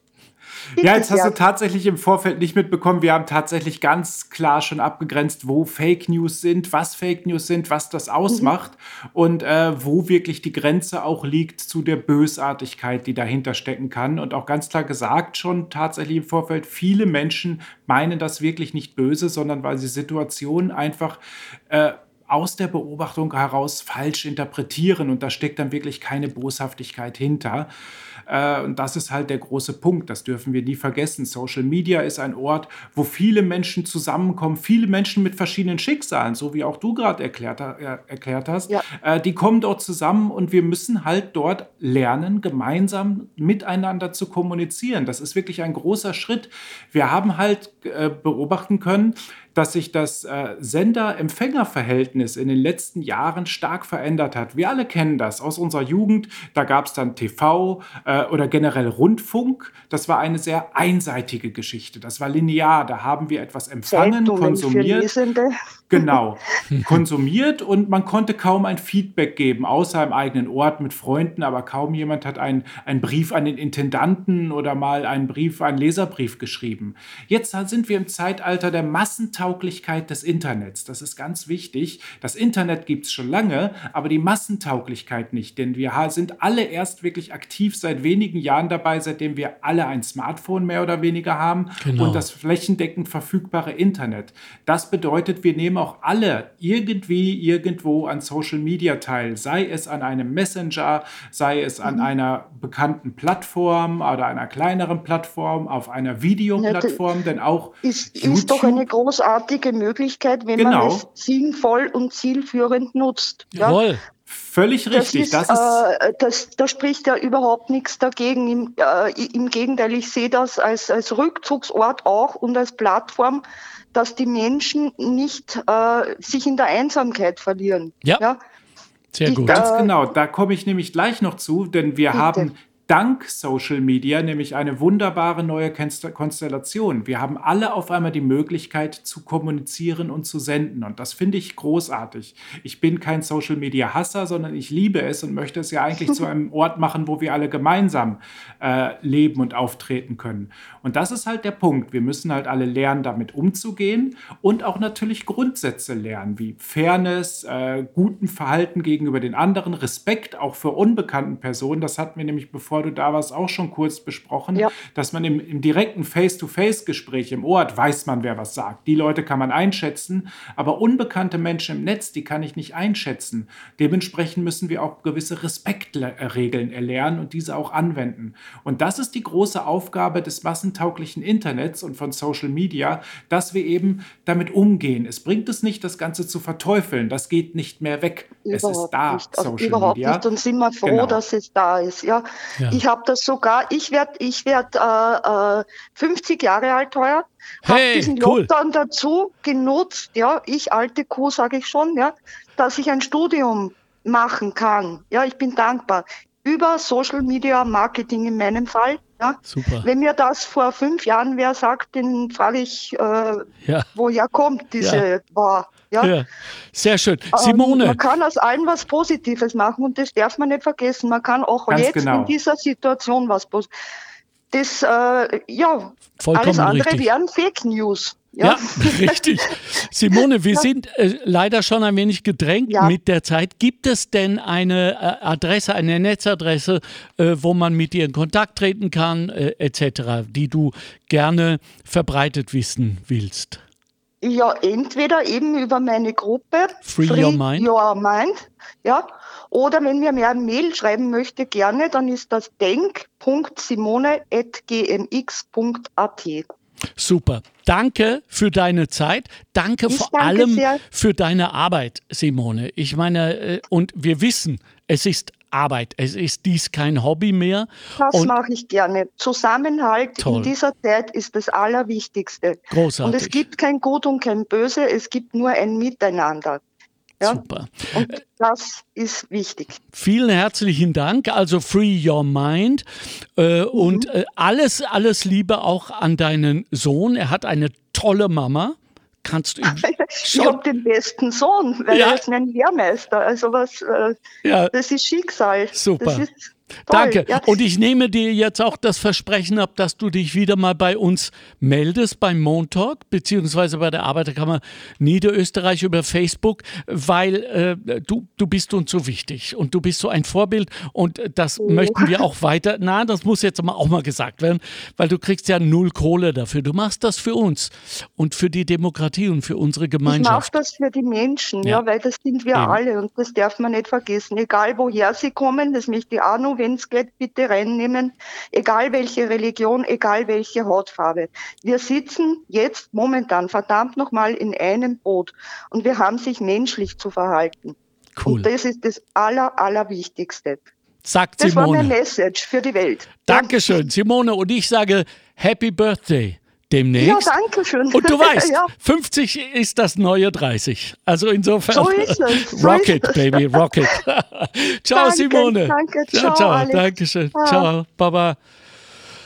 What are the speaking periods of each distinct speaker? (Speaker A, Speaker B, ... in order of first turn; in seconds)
Speaker A: 0.8-27.7, 28.3-65.1, 65.9-108.9, 110.6-111.0, 114.3-115.8, 129.5-190.3, 190.8-191.2, 221.7-222.3
Speaker B: 0.8-1.4, 63.9-66.2, 106.6-107.0, 107.8-113.8, 114.9-123.4, 123.9-128.4, 129.3-129.9, 132.1-132.5, 188.5-216.1, 217.3-223.7, 224.5-229.2, 232.7-232.9, 244.2-256.5, 259.9-260.8, 268.0-276.6, 277.9-279.8, 283.7-284.1, 289.7-294.2, 294.7-297.5, 311.6-312.1, 320.1-340.6, 341.4-343.7, 347.0-348.7, 351.7-353.9, 354.9-357.7
Speaker C: 66.7-67.0, 91.8-92.2, 113.5-114.0, 129.1-129.7, 197.7-198.5, 209.5-209.9, 214.8-215.1, 216.0-218.0, 226.2-227.1, 228.4-243.6, 246.8-247.7, 257.0-268.3, 270.2-270.5, 272.7-273.4, 277.2-278.2, 279.9-290.6, 291.9-292.2, 294.4-294.7, 295.7-296.3, 296.9-320.6, 322.5-322.8, 338.2-338.5, 341.1-341.9, 343.3-347.3, 347.9-358.4